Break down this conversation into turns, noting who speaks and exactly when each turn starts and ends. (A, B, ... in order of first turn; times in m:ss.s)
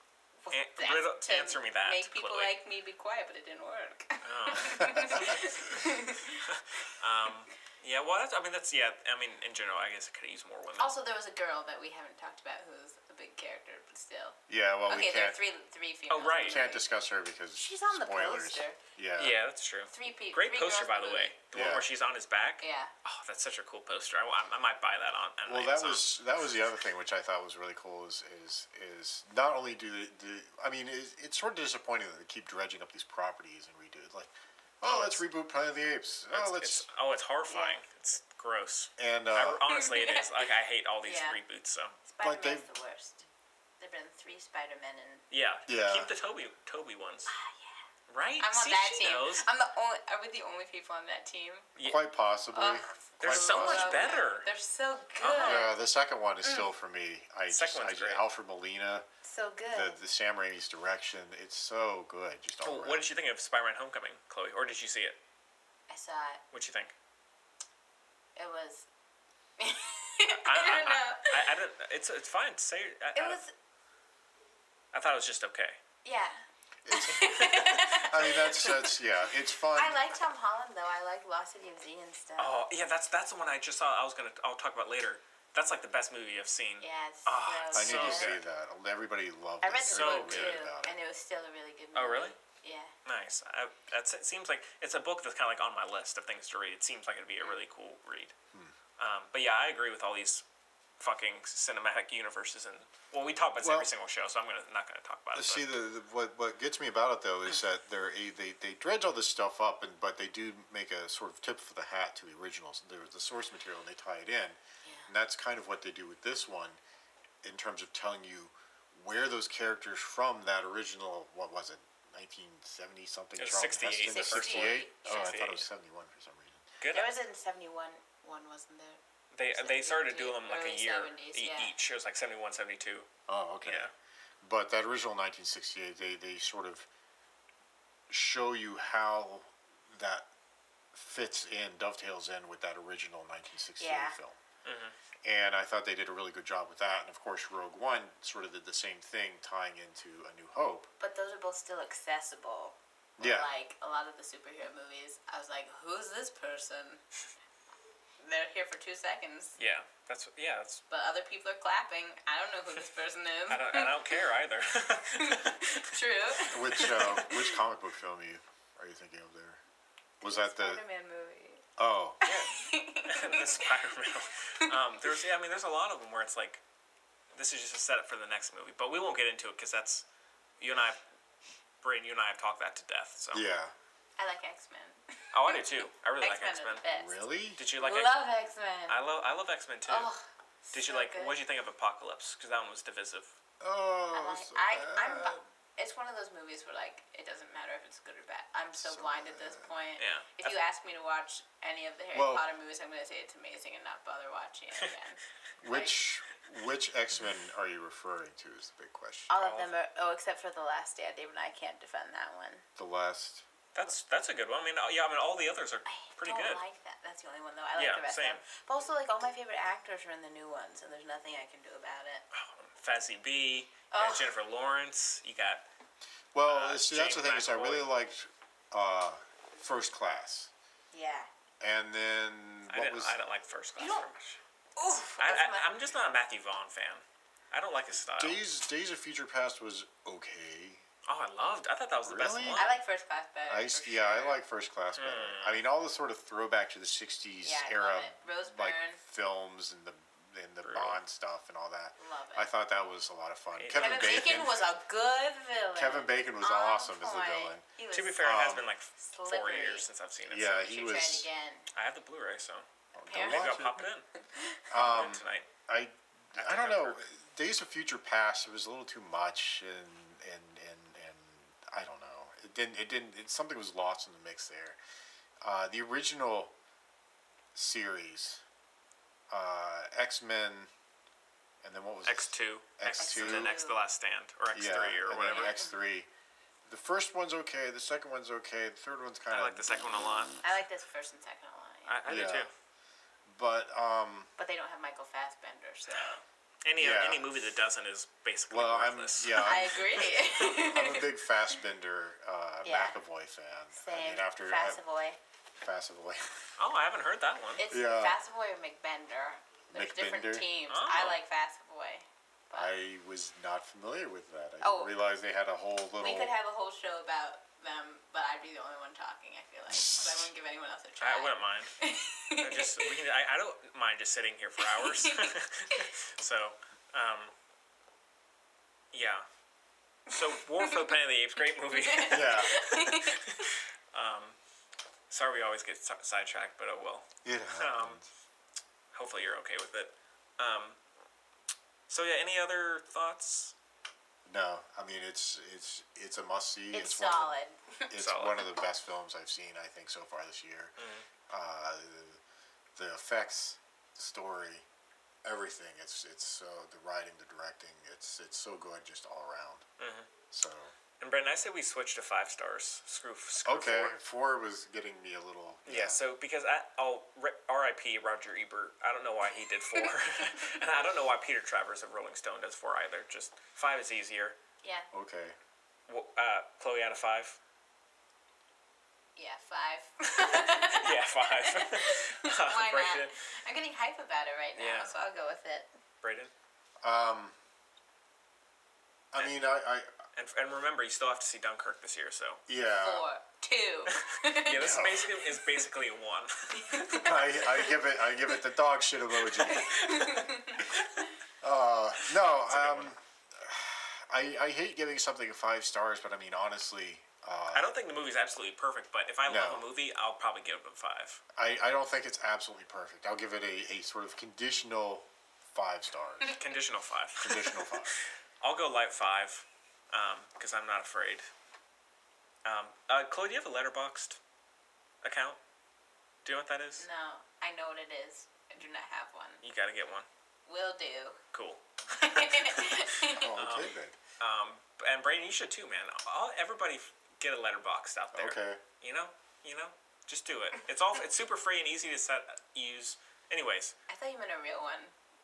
0:00.4-0:06.4 A
0:00.5-0:02.6 B
0:04.2-0:05.7 B
0:04.6-0:05.4 C
0:06.4-0:11.0 B
0:10.8-0:14.4 A
0:14.5-0:15.4 C
0:14.9-0:16.9 A
0:16.1-0:16.6 B
0:16.4-0:19.4 C
0:17.6-0:18.8 A
0:19.2-0:26.1 B
0:19.9-0:21.3 A
0:21.5-0:21.9 C
0:22.6-0:22.9 A
0:25.5-0:36.9 C
0:34.8-0:35.2 B
0:36.3-0:42.0 B
0:37.5-0:37.8 A
0:39.0-0:39.7 C
0:39.7-0:40.5 A
0:41.0-0:41.4 A
0:42.0-0:43.3 A
0:42.2-0:42.7 C
0:43.8-0:45.2 A
0:45.3-0:47.3 B
0:45.7-0:46.1 C
0:47.3-0:47.8 A
0:48.1-0:49.5 B
0:48.4-0:51.7 A
0:51.8-0:54.2 C
0:52.5-0:55.7 A
0:53.2-0:54.5 B
0:55.2-0:55.7 B
0:55.4-0:59.1 C
0:57.5-0:58.2 B
0:59.2-1:00.0 A
0:59.7-1:03.1 C
1:02.6-1:05.2 B
1:05.9-1:06.4 A
1:06.5-1:07.0 B
1:08.4-1:08.9 A
1:09.6-1:11.5 A
1:10.4-1:13.4 B
1:13.1-1:13.5 A
1:14.9-1:15.8 B
1:16.0-1:18.9 A
1:16.8-1:20.2 C
1:17.1-1:18.3 B
1:19.7-1:22.6 A
1:22.4-1:28.4 B
1:26.8-1:28.4 A
1:27.7-1:30.9 C
1:29.6-1:32.9 A
1:29.9-1:30.6 B
1:32.0-1:32.4 B
1:33.0-1:38.3 B
1:39.0-1:40.4 B
1:41.0-1:45.7 B
1:43.6-1:43.9 C
1:45.4-1:56.8 C
1:54.8-1:55.1 A
1:57.4-2:06.7 C
2:03.4-2:05.7 B
2:04.1-2:05.4 A
2:06.8-2:07.2 B
2:06.9-2:09.0 A
2:09.3-2:13.1 B
2:09.5-2:11.7 A
2:13.3-2:13.9 C
2:13.6-2:13.9 B
2:14.4-2:16.9 C
2:18.1-2:20.3 C
2:20.9-2:24.4 C
2:23.8-2:24.2 A
2:24.6-2:25.0 B
2:25.2-2:30.9 C
2:31.0-2:37.0 A
2:33.2-2:33.5 C
2:38.2-2:39.6 A
2:39.6-2:40.8 B
2:40.9-2:44.1 A
2:43.5-2:45.9 B
2:45.2-2:47.4 A
2:46.5-2:49.6 C
2:46.8-2:47.2 B
2:50.2-2:50.8 C
2:50.2-2:51.6 A
2:51.8-2:52.2 C
2:52.2-2:53.7 A
2:52.2-2:56.6 B
2:57.3-3:00.1 B
3:00.6-3:01.0 B
3:01.8-3:03.4 B
3:03.3-3:03.7 C
3:04.2-3:07.2 A
3:05.3-3:06.8 B
3:06.9-3:07.6 C
3:07.6-3:08.1 B
3:07.7-3:09.0 A
3:08.9-3:10.1 B
3:09.9-3:11.4 A
3:10.7-3:13.3 B
3:13.6-3:15.4 C
3:14.1-3:26.0 A
3:18.8-3:19.7 C
3:20.0-3:20.6 B
3:22.1-3:22.4 C
3:25.6-3:29.5 C
3:29.3-3:32.6 A
3:29.4-3:29.7 B
3:32.8-3:33.4 C
3:33.7-3:36.6 B
3:35.8-3:42.2 A
3:37.8-3:38.4 B
3:42.3-3:45.6 B
3:43.9-3:44.3 A
3:46.3-3:50.5 C
3:46.5-3:47.9 B
3:50.9-3:51.3 A
3:51.6-3:53.2 C
3:52.7-3:54.4 B
3:53.8-3:54.1 A
3:54.8-3:55.8 A
3:55.0-3:58.4 B
3:58.2-4:00.8 C
4:01.1-4:02.8 B
4:02.0-4:02.7 C
4:02.5-4:04.2 A
4:03.5-4:14.6 C
4:03.9-4:04.4 B
4:05.0-4:05.6 B
4:07.4-4:09.0 A
4:10.6-4:11.0 B
4:12.0-4:12.5 A
4:13.5-4:14.4 B
4:13.7-4:18.4 A
4:15.8-4:17.6 C
4:17.9-4:20.7 B
4:18.2-4:18.6 C
4:19.0-4:19.8 A
4:20.3-4:21.3 C
4:20.6-4:21.7 A
4:21.8-4:24.0 B
4:23.0-4:23.8 C
4:23.1-4:23.6 A
4:24.7-4:34.8 C
4:24.7-4:25.5 B
4:26.4-4:27.0 B
4:35.4-4:36.5 C
4:37.6-4:38.4 C
4:39.3-4:40.7 C
4:41.6-4:43.5 C
4:42.1-4:45.5 B
4:43.0-4:43.8 A
4:44.5-4:46.1 C
4:45.4-4:45.6 A
4:46.7-4:49.9 C
4:49.3-4:50.4 B
4:50.4-4:52.0 A
4:51.9-4:52.5 B
4:52.1-4:52.5 C
4:53.3-4:54.3 C
4:54.4-4:56.2 A
4:56.6-4:59.9 B
4:56.8-4:57.4 C
4:58.5-5:04.8 C
4:59.4-5:01.1 A
5:02.6-5:03.0 A
5:03.8-5:05.2 A
5:05.6-5:06.5 C
5:06.6-5:07.6 B
5:07.6-5:12.7 A
5:07.7-5:08.2 C
5:09.7-5:10.5 C
5:10.7-5:11.2 B
5:12.5-5:16.3 C
5:14.6-5:14.9 A
5:16.0-5:23.0 A
5:19.7-5:20.3 C
5:21.0-5:21.7 B
5:22.4-5:27.3 B
5:24.6-5:25.8 A
5:28.9-5:29.3 B
5:30.1-5:34.4 B
5:30.6-5:30.9 A
5:31.7-5:33.4 A
5:32.1-5:32.6 C
5:35.1-5:38.0 B
5:37.2-5:38.1 C
5:38.9-5:40.8 B
5:41.9-5:43.6 B
5:44.3-5:47.4 C
5:46.7-5:47.9 A
5:47.9-5:50.8 C
5:48.0-5:48.5 B
5:50.8-5:51.1 B
5:51.3-5:52.2 C
5:52.7-5:54.7 C
5:55.2-5:59.6 C
5:59.8-6:00.1 B
6:00.3-6:00.7 C
6:01.0-6:03.9 B
6:03.4-6:06.0 C
6:05.7-6:14.4 B
6:14.9-6:15.4 C
6:15.9-6:17.4 B
6:19.2-6:25.7 A
6:20.2-6:23.1 B
6:24.6-6:24.9 B
6:26.0-6:26.3 B
6:26.8-6:27.4 C
6:29.1-6:29.9 C
6:30.2-6:32.4 B
6:32.5-6:33.1 C
6:32.8-6:34.9 A
6:33.9-6:37.5 B
6:34.5-6:35.1 C
6:36.6-6:37.1 A
6:37.0-6:39.8 C
6:39.3-6:40.8 B
6:39.5-6:41.0 A
6:41.4-6:47.7 C
6:42.1-6:42.9 B
6:47.5-6:51.2 B
6:49.3-6:49.7 C
6:51.3-6:56.4 C
6:56.4-7:01.3 B
6:57.2-6:58.0 C
7:02.4-7:04.2 B
7:05.0-7:05.4 B
7:06.2-7:06.9 B
7:06.8-7:09.4 A
7:09.4-7:10.1 B
7:10.5-7:11.2 A
7:11.3-7:23.8 B
7:12.0-7:13.3 A
7:13.1-7:14.0 C
7:18.1-7:18.6 C
7:23.9-7:24.9 A